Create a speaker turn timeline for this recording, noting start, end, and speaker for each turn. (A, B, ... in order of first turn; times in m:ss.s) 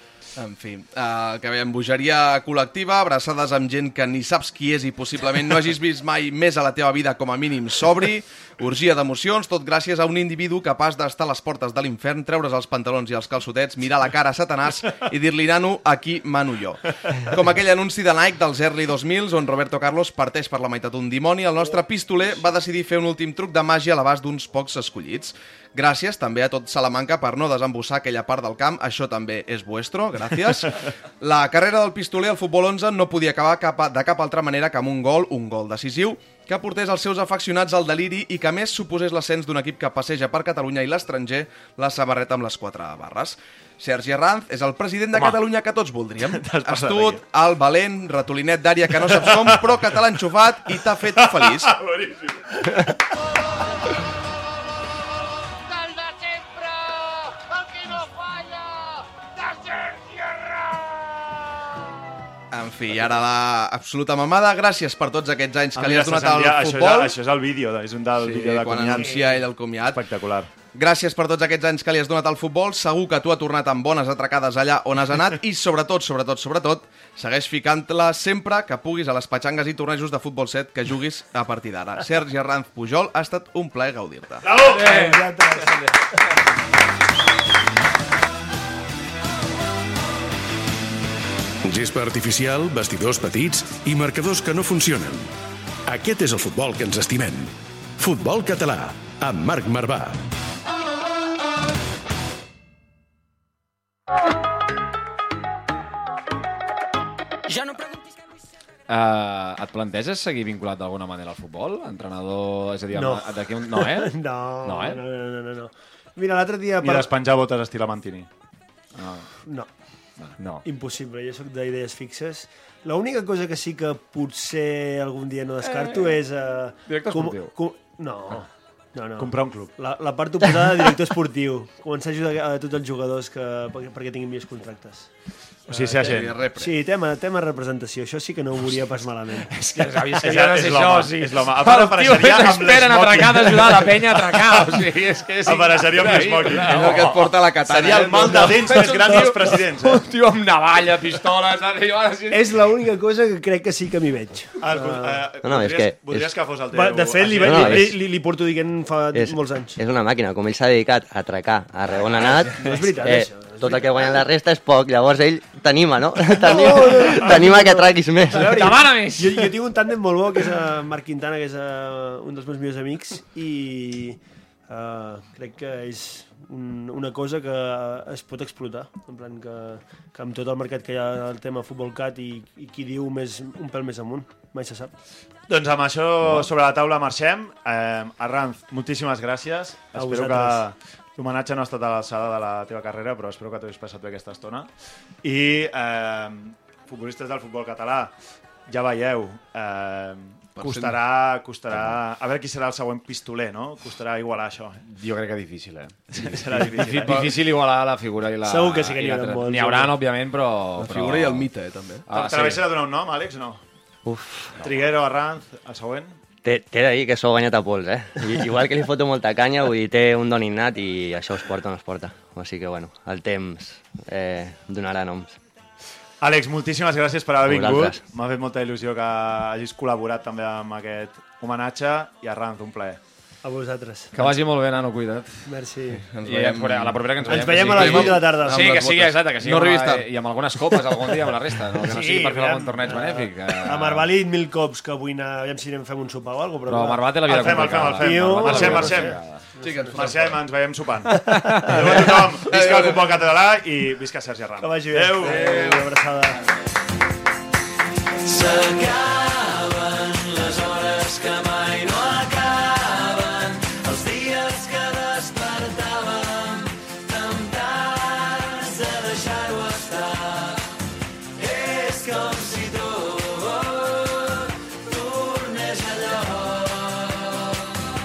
0:00.4-0:51.7 A
0:45.1-0:45.4 B
0:46.2-0:47.2 B
0:49.0-0:49.8 B
0:51.1-0:52.9 B
1:02.5-1:07.1 A
1:05.7-1:10.5 B
1:08.2-1:10.0 A
1:10.7-1:24.7 A
1:24.4-1:25.0 B
1:24.6-1:25.2 C
1:24.6-1:25.8 D
1:31.6-1:35.3 E
1:35.9-1:40.2 E
1:48.9-1:55.0 C
1:52.9-1:57.1 D
1:56.8-1:58.3 B
2:00.6-2:15.1 D
2:05.6-2:06.2 C
2:06.9-2:07.5 C
2:09.2-2:09.7 B
2:15.7-2:16.4 B
2:15.7-2:19.5 D
2:15.9-2:16.8 A
2:19.5-2:24.8 B
2:19.7-2:27.3 C
2:25.4-2:27.1 B
2:26.5-2:29.4 A
2:27.6-2:30.0 B
2:28.4-2:32.5 C
2:32.3-2:35.2 D
2:34.6-2:38.0 B
2:35.4-2:36.3 F
2:36.7-2:39.8 D
2:37.4-2:37.9 F
2:39.1-2:48.5 F
2:42.2-2:44.2 D
2:46.3-3:04.9 D
2:48.4-2:49.3 C
3:05.5-3:14.7 B
3:09.9-3:10.6 D
3:15.2-3:18.1 B
3:18.7-3:24.8 B
3:20.6-3:21.0 A
3:24.9-3:31.5 C
3:26.1-3:27.4 B
3:28.4-3:29.9 D
3:30.8-3:32.0 A
3:32.1-3:32.6 C
3:32.1-3:33.6 B
3:34.0-3:34.5 F
3:34.6-3:36.2 B
3:36.4-3:45.4 F
3:46.2-3:53.0 B
3:47.4-3:48.0 F
3:53.4-3:54.1 D
3:54.1-3:55.3 C
3:55.4-3:56.0 D
3:56.0-4:00.0 A
3:56.2-4:04.1 C
3:57.2-3:58.8 D
4:01.8-4:10.0 D
4:06.7-4:09.4 C
4:07.3-4:09.2 B
4:09.6-4:10.4 A
4:09.9-4:15.6 B
4:11.9-4:13.2 A
4:14.6-4:16.4 D
4:15.2-4:15.9 A
4:18.2-4:30.7 G
4:31.4-4:37.5 G